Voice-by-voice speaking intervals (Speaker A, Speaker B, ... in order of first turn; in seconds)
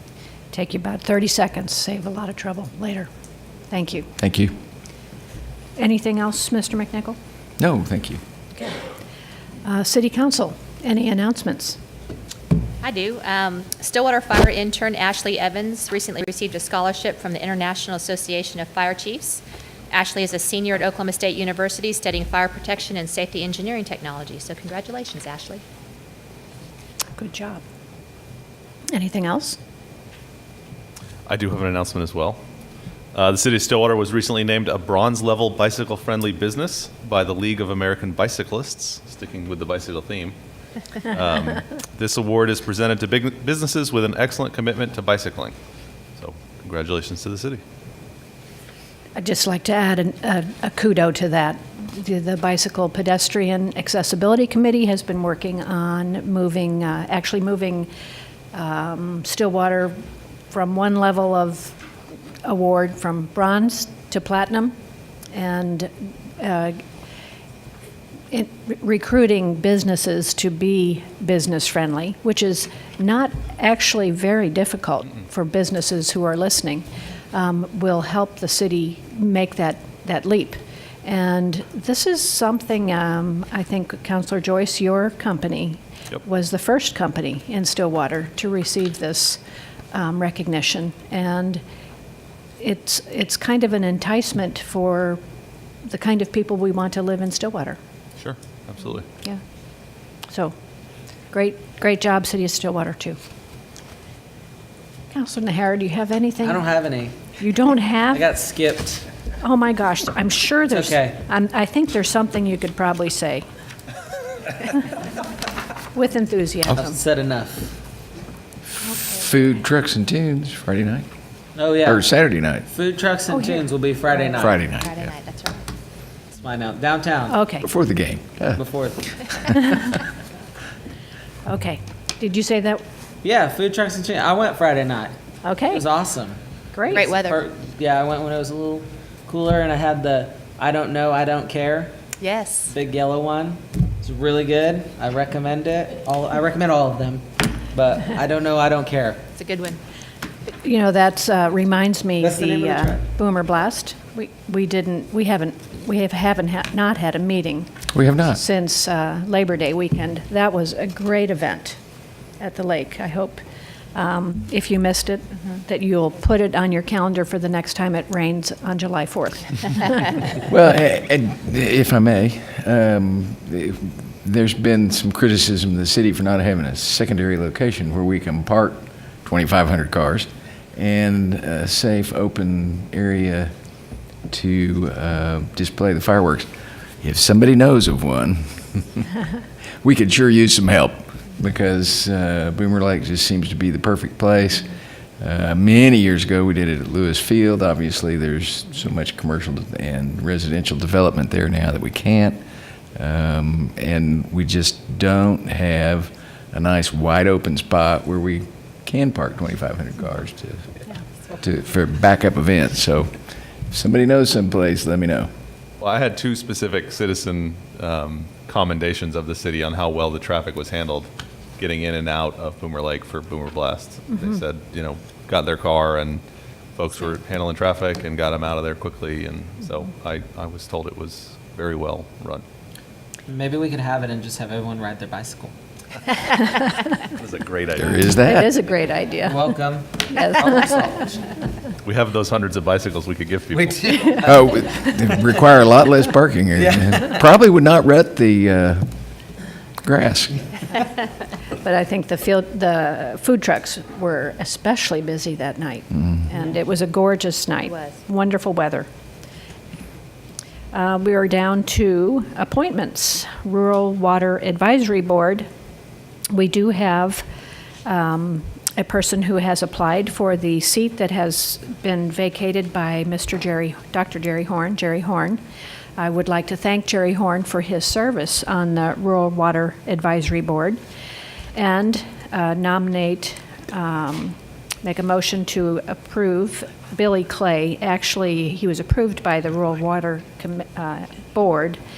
Speaker A: 0.5-3.1, 3.7-4.1, 5.8-7.2, 9.6-11.8, 27.1-27.6, 28.9-29.6, 49.1-57.9, 58.5-60.0, 60.5-61.8, 62.4-64.7, 65.3-66.8, 68.3-89.4, 89.9-91.6, 92.6-95.2, 95.8-97.8, 100.3-100.5, 101.3-103.2, 105.1-106.7, 107.4-108.2, 109.4-113.5, 115.9-117.0, 123.3-123.6, 127.3-127.7, 129.5-129.9, 131.4-132.8, 135.4-135.8, 136.7-137.0, 150.6-161.8, 162.4-163.4, 163.9-170.2, 238.2-239.5, 240.1-240.5, 251.6-258.9, 260.7-265.5, 266.3-267.2, 267.8-275.4, 276.0-280.8, 281.5-291.8
Speaker B: 4.2-4.5, 7.6-8.2, 119.0-121.0, 121.8-122.7, 124.3-125.1, 127.6-128.6, 157.9-158.4, 170.4-183.5, 184.3-186.5, 187.0-189.1, 189.8-202.4, 202.9-210.8, 211.4-213.1, 213.7-215.3, 237.8-238.5, 244.2-248.8, 249.8-250.4
Speaker C: 12.8-25.6, 124.4-125.6, 136.9-137.4, 142.2-142.7, 149.3-149.8
Speaker D: 31.3-32.4, 33.1-40.4, 41.1-45.5, 46.2-47.6, 98.2-99.1, 215.8-226.2, 226.8-232.4, 236.6-238.1, 241.8-244.2
Speaker E: 106.4-107.2, 108.1-109.1, 110.7-111.2, 116.7-117.7, 121.5-122.1, 122.7-124.6, 126.3-127.4, 128.5-129.2, 133.2-135.1, 135.7-141.9, 142.7-149.3, 152.2-153.0, 233.3-235.5, 239.2-241.2, 243.5-244.2